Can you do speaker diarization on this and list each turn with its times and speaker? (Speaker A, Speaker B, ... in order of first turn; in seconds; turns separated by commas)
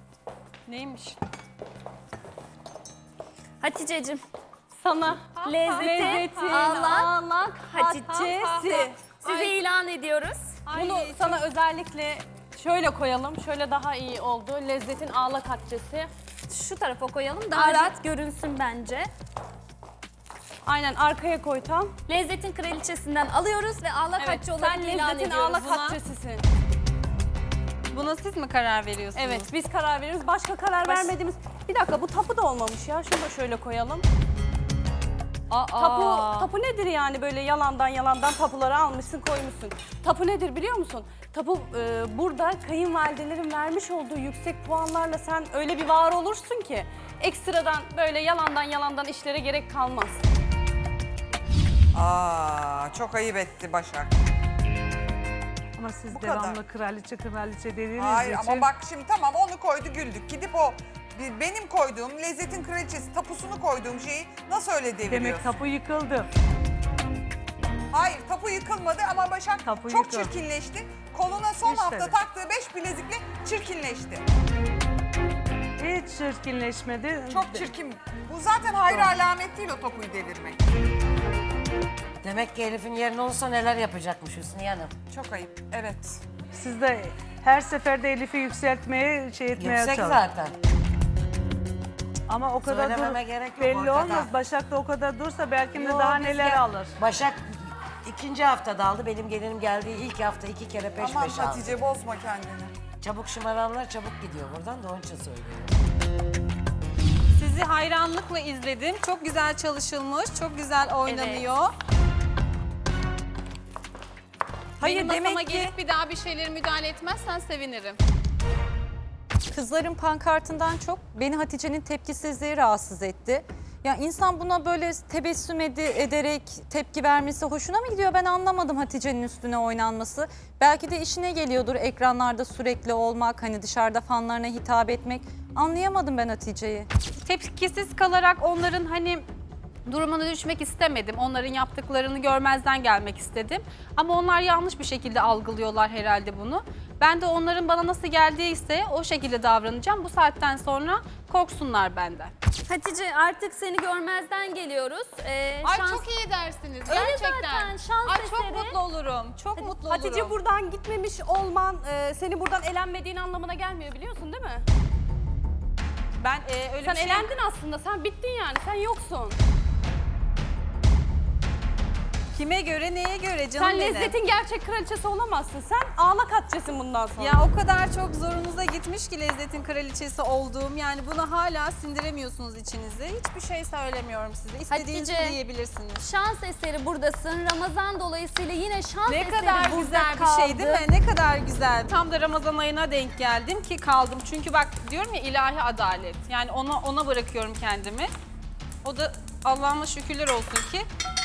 Speaker A: 0.7-1.2, Speaker B: 3.6-4.2, Speaker C: 4.7-8.9, Speaker A: 5.3-7.0, Speaker B: 5.4-7.1, Speaker B: 7.7-10.4, Speaker A: 8.1-9.6, Speaker A: 10.7-11.4, Speaker C: 10.7-16.1, Speaker B: 16.5-19.1, Speaker A: 17.5-17.9, Speaker C: 20.6-21.9, Speaker B: 22.1-26.0, Speaker C: 24.2-26.4, Speaker A: 27.9-29.5, Speaker C: 29.1-34.0, Speaker A: 30.8-31.1, Speaker A: 35.5-36.5, Speaker C: 35.5-50.2, Speaker D: 51.9-54.1, Speaker E: 55.8-58.7, Speaker D: 56.1-56.6, Speaker D: 58.0-65.5, Speaker E: 65.1-66.3, Speaker D: 67.9-74.2, Speaker E: 69.6-70.3, Speaker E: 71.6-72.2, Speaker E: 75.8-77.7, Speaker D: 77.3-80.6, Speaker F: 82.2-84.9, Speaker D: 85.1-86.2, Speaker E: 86.5-90.2, Speaker F: 89.5-90.5, Speaker E: 92.3-96.9, Speaker F: 92.6-94.3, Speaker F: 95.7-101.8, Speaker D: 101.0-102.7, Speaker F: 103.0-105.7, Speaker A: 107.3-111.7, Speaker B: 111.0-111.5, Speaker A: 114.8-118.0, Speaker G: 114.8-115.7, Speaker G: 119.5-136.9, Speaker A: 137.2-139.2, Speaker A: 139.8-152.3, Speaker B: 152.6-156.1, Speaker A: 155.6-160.3, Speaker B: 156.9-158.8, Speaker C: 159.6-164.6, Speaker A: 166.2-167.3, Speaker C: 166.8-169.4, Speaker A: 172.3-174.2, Speaker C: 173.6-177.4, Speaker A: 177.2-186.0, Speaker B: 184.7-185.4, Speaker B: 186.0-190.9, Speaker A: 189.1-198.1, Speaker A: 198.8-200.8